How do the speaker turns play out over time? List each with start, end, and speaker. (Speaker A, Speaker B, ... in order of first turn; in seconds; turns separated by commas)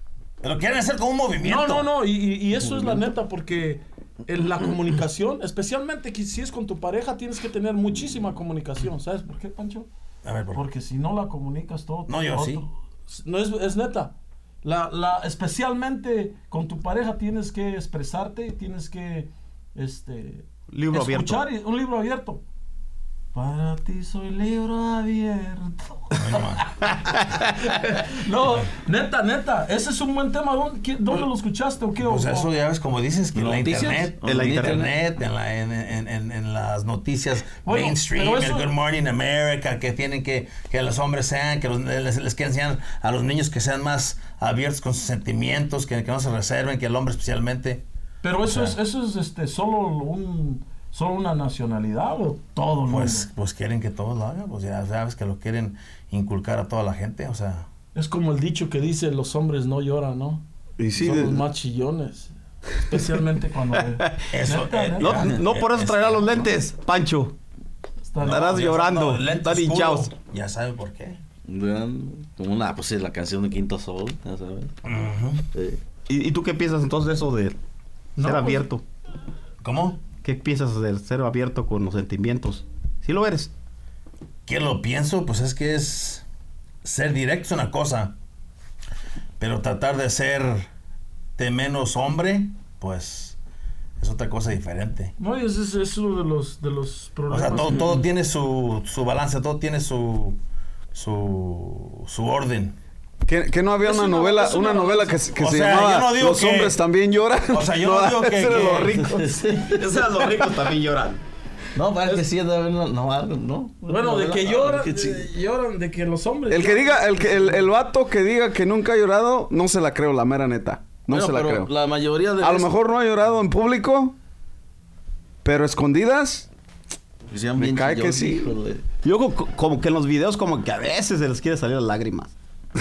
Speaker A: 0.4-1.9, Speaker B: 1.4-9.9, Speaker A: 10.2-10.6, Speaker B: 10.5-22.4, Speaker A: 12.1-12.6, Speaker C: 20.7-21.4, Speaker B: 23.3-32.5, Speaker A: 26.1-26.7, Speaker A: 32.0-47.8, Speaker D: 33.3-34.9, Speaker C: 34.2-34.9, Speaker B: 37.6-38.7, Speaker B: 48.2-53.3, Speaker A: 48.4-48.8, Speaker A: 52.9-57.7, Speaker B: 57.9-60.4, Speaker E: 60.8-61.4, Speaker B: 60.9-65.3, Speaker C: 64.0-64.2, Speaker A: 64.3-66.5, Speaker C: 65.0-67.3, Speaker B: 68.0-68.6, Speaker C: 68.2-70.1, Speaker A: 68.2-71.2, Speaker D: 71.5-74.8, Speaker A: 74.8-75.4, Speaker D: 75.5-75.8, Speaker C: 76.1-77.6, Speaker B: 78.2-78.7, Speaker C: 78.2-78.8, Speaker A: 79.6-80.0, Speaker C: 80.2-83.5, Speaker A: 84.5-86.2, Speaker A: 86.8-88.1, Speaker A: 89.4-90.7, Speaker A: 91.4-93.4, Speaker A: 94.0-95.1, Speaker B: 95.2-97.9, Speaker A: 97.3-100.4, Speaker A: 100.9-102.8, Speaker E: 103.2-109.3, Speaker B: 103.8-105.4, Speaker A: 105.4-106.8, Speaker A: 107.5-109.0, Speaker C: 108.4-111.2, Speaker D: 108.7-110.0, Speaker D: 111.7-115.3, Speaker B: 113.9-117.7, Speaker E: 116.5-121.7, Speaker D: 121.1-122.7, Speaker E: 122.4-124.2, Speaker E: 125.4-126.5, Speaker D: 127.3-128.8, Speaker E: 127.6-128.5, Speaker C: 129.0-132.3